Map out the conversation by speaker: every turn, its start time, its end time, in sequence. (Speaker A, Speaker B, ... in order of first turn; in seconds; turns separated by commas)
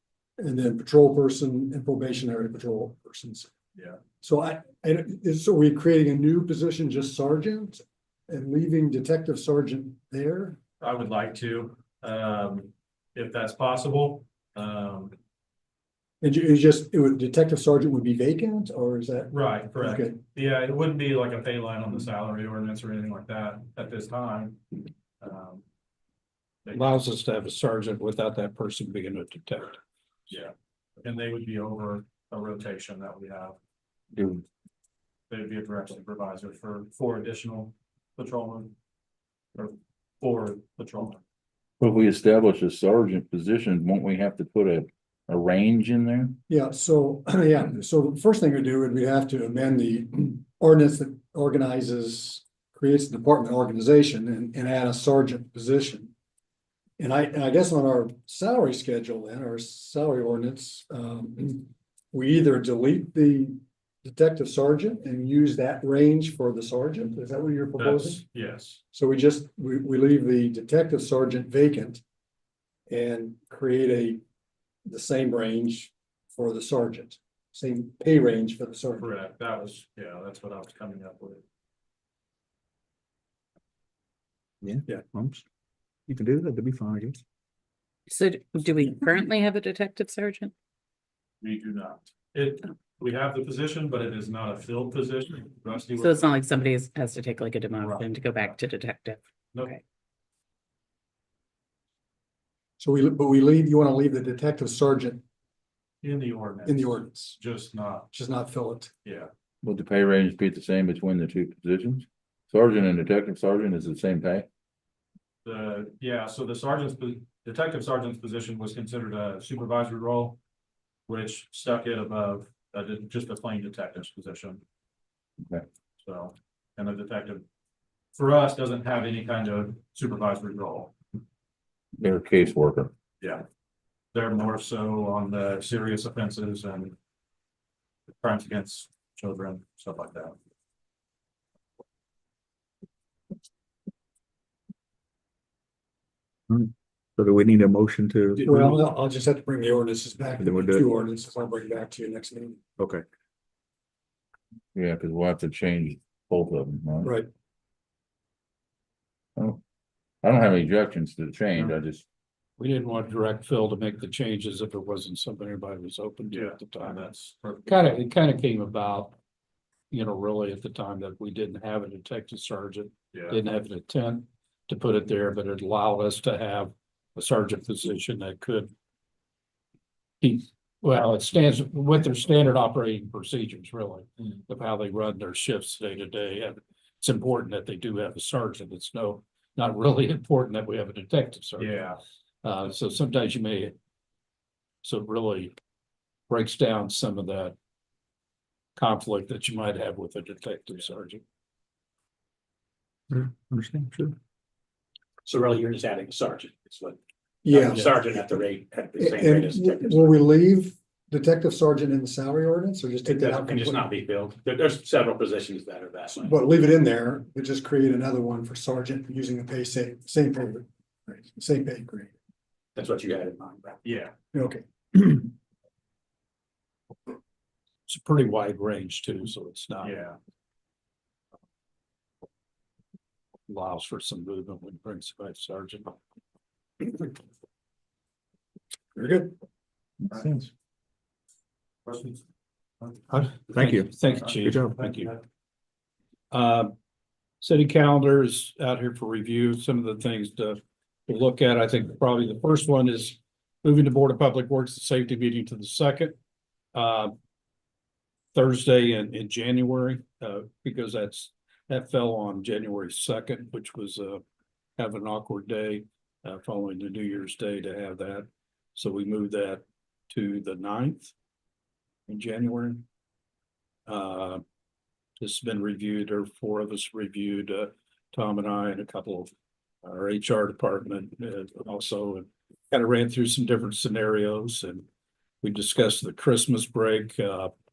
Speaker A: 0.4-3.5, Speaker A: 4.2-10.6, Speaker B: 10.8-15.1, Speaker A: 16.2-20.2, Speaker B: 19.3-24.6, Speaker B: 25.2-25.6, Speaker B: 26.7-27.0, Speaker C: 26.7-29.8, Speaker B: 30.3-33.5, Speaker D: 34.1-34.4, Speaker B: 35.3-38.7, Speaker B: 39.5-41.2, Speaker D: 41.8-46.4, Speaker A: 46.5-56.1, Speaker A: 57.0-68.2, Speaker B: 67.8-68.8, Speaker A: 68.9-72.0, Speaker A: 72.9-74.2, Speaker A: 74.8-79.1, Speaker B: 79.0-81.4, Speaker E: 84.6-85.4, Speaker E: 86.1-87.2, Speaker F: 88.1-90.5, Speaker B: 91.4-96.4, Speaker F: 96.0-99.8, Speaker B: 97.8-98.6, Speaker A: 102.8-105.2, Speaker B: 106.0-108.1, Speaker A: 106.6-107.4, Speaker A: 108.1-108.9, Speaker D: 109.6-114.5, Speaker B: 115.4-120.4, Speaker B: 121.1-124.6, Speaker B: 126.0-127.4, Speaker B: 128.2-130.9, Speaker D: 132.0-132.9, Speaker B: 134.1-136.9, Speaker B: 138.2-140.3, Speaker E: 146.5-148.8, Speaker A: 148.4-152.6, Speaker E: 150.4-150.9, Speaker E: 152.8-153.0, Speaker D: 154.7-157.1, Speaker A: 157.0-157.3, Speaker D: 160.2-162.0, Speaker C: 162.6-167.1, Speaker B: 166.3-167.9, Speaker C: 167.6-169.2, Speaker C: 169.9-178.7, Speaker B: 173.1-173.4, Speaker C: 180.2-191.8, Speaker B: 191.6-192.0, Speaker C: 192.4-193.7, Speaker C: 194.8-195.5, Speaker C: 196.3-197.5, Speaker C: 198.8-201.2, Speaker E: 203.1-204.1, Speaker G: 205.2-210.1, Speaker A: 207.4-208.0, Speaker A: 209.0-213.9, Speaker G: 213.0-216.3, Speaker A: 216.2-222.1, Speaker G: 222.8-223.8, Speaker B: 223.8-224.1, Speaker A: 224.3-225.3, Speaker C: 227.9-230.0, Speaker B: 229.8-230.2, Speaker C: 233.5-236.0, Speaker A: 238.9-239.3, Speaker D: 240.1-240.5, Speaker B: 241.8-242.2, Speaker C: 243.1-245.2, Speaker E: 243.5-244.8, Speaker C: 246.3-246.7, Speaker C: 247.4-256.1, Speaker C: 256.7-257.1, Speaker C: 258.3-264.2, Speaker C: 264.8-271.1, Speaker C: 272.1-272.8, Speaker C: 273.9-274.4, Speaker C: 275.2-279.3, Speaker C: 279.8-284.8, Speaker C: 285.4-287.5